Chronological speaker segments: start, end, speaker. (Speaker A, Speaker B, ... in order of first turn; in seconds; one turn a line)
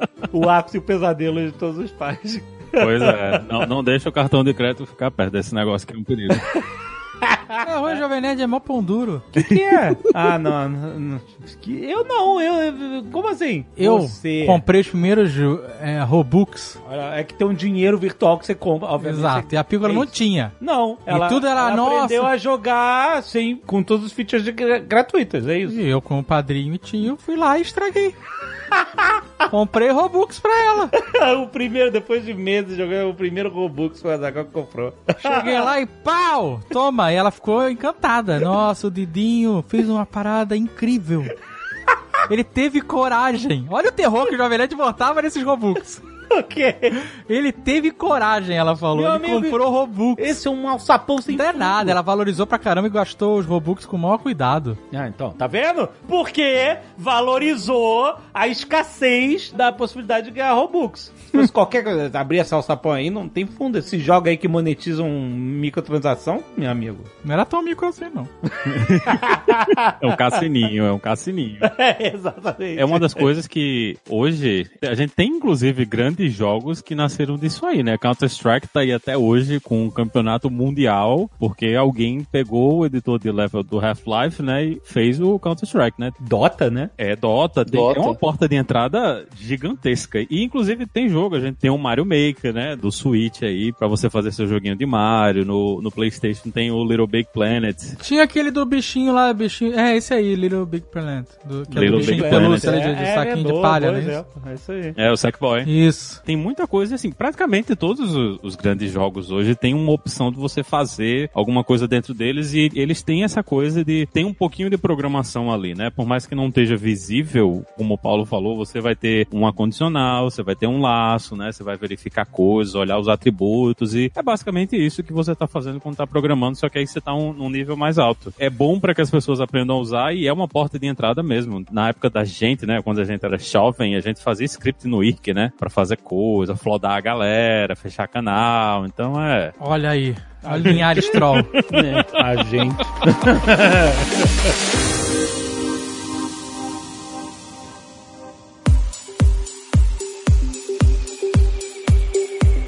Speaker A: 0.3-3.4
Speaker B: 2.8-6.5
Speaker A: 7.2-8.0
Speaker C: 7.6-9.3
Speaker A: 9.3-14.6
Speaker C: 13.8-16.8
Speaker A: 16.8-25.8
Speaker C: 19.0-20.6
Speaker C: 21.1-22.3
Speaker C: 25.7-28.2
Speaker A: 28.7-29.2
Speaker C: 29.5-30.9
Speaker A: 30.9-35.7
Speaker C: 35.2-41.4
Speaker C: 42.3-46.0
Speaker A: 46.3-47.0
Speaker C: 47.0-50.4
Speaker A: 48.9-49.6
Speaker A: 50.1-52.0
Speaker C: 51.3-54.8
Speaker A: 54.9-67.1
Speaker C: 67.2-68.3
Speaker A: 68.6-70.1
Speaker B: 68.7-71.8
Speaker A: 71.6-73.3
Speaker B: 72.8-86.2
Speaker A: 86.2-86.9
Speaker B: 87.0-98.0
Speaker A: 87.7-88.2
Speaker C: 98.0-104.2
Speaker A: 101.7-105.0
Speaker B: 101.7-102.8
Speaker B: 105.0-105.7
Speaker C: 105.6-106.2
Speaker B: 106.2-139.6
Speaker C: 139.6-141.6
Speaker A: 140.4-144.5